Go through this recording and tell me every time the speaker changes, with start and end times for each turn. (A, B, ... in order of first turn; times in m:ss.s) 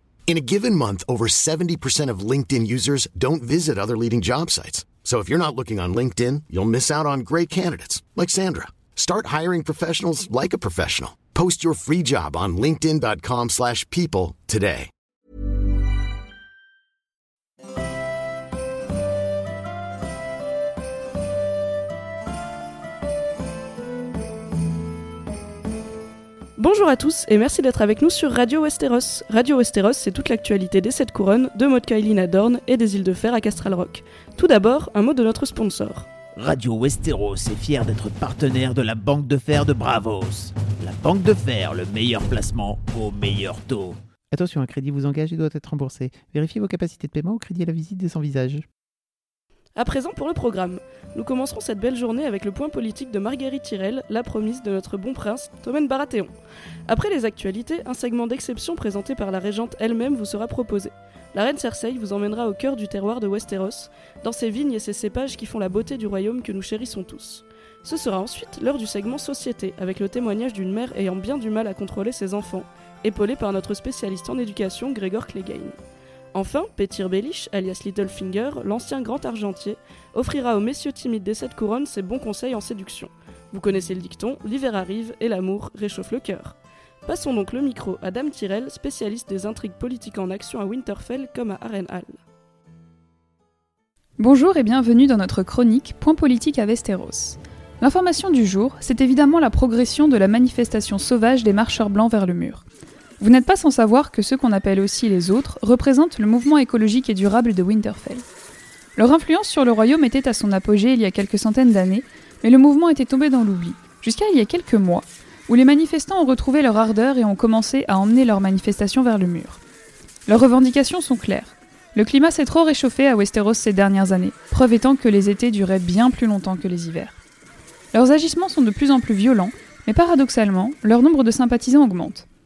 0:00.3-0:14.9 A
0:26.6-0:36.1 B
0:36.4-0:44.0 C
0:44.3-0:48.7 D
0:49.8-0:56.3 B
0:56.9-1:15.8 B
1:16.3-1:32.2 B
1:34.2-1:42.6 E
1:43.2-1:48.2 E
1:49.0-1:59.6 E
2:00.3-2:07.2 E
2:07.9-2:12.3 E